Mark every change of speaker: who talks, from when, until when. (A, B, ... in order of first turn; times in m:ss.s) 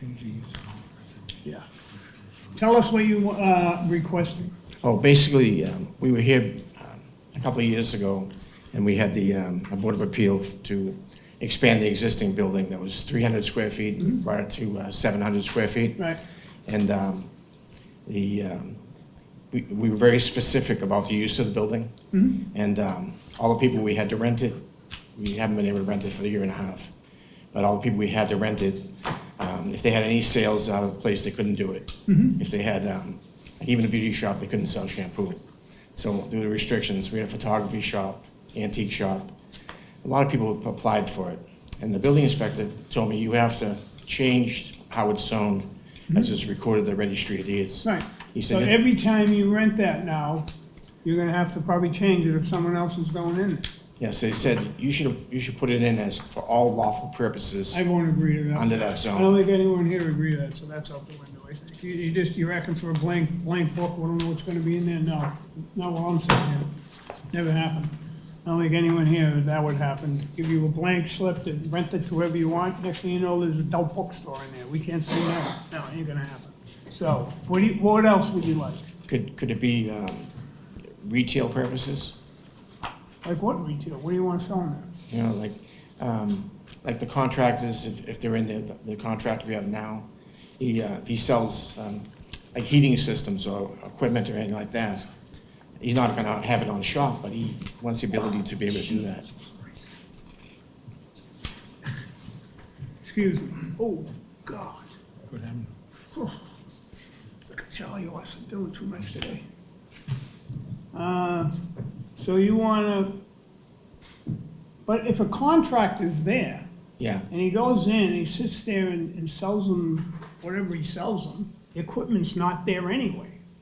0:02.5-0:04.5 A
0:04.8-0:16.1 B
0:16.6-0:17.3 B
0:18.0-0:18.8 B
0:19.5-0:24.6 B
0:22.1-0:22.4 A
0:25.2-0:26.9 B
0:27.5-0:35.4 B
0:32.1-0:32.4 A
0:35.9-0:39.4 B
0:40.0-0:48.7 B
0:47.8-0:50.4 A
0:51.0-0:53.7 A
0:54.0-0:57.8 B
0:57.7-1:06.7 A
0:58.5-0:59.3 B
1:07.3-1:18.9 A
1:19.1-1:20.3 B
1:21.0-1:22.2 B
1:23.2-1:24.9 A
1:25.1-1:30.1 B
1:30.6-1:35.0 B
1:35.8-1:39.2 B
1:43.0-1:44.9 A
1:46.1-1:46.4 A
1:47.5-1:49.4 A
1:50.9-1:51.5 A
1:52.2-1:53.2 A
1:54.8-1:56.6 A
1:57.0-1:57.3 B
1:57.3-2:03.4 A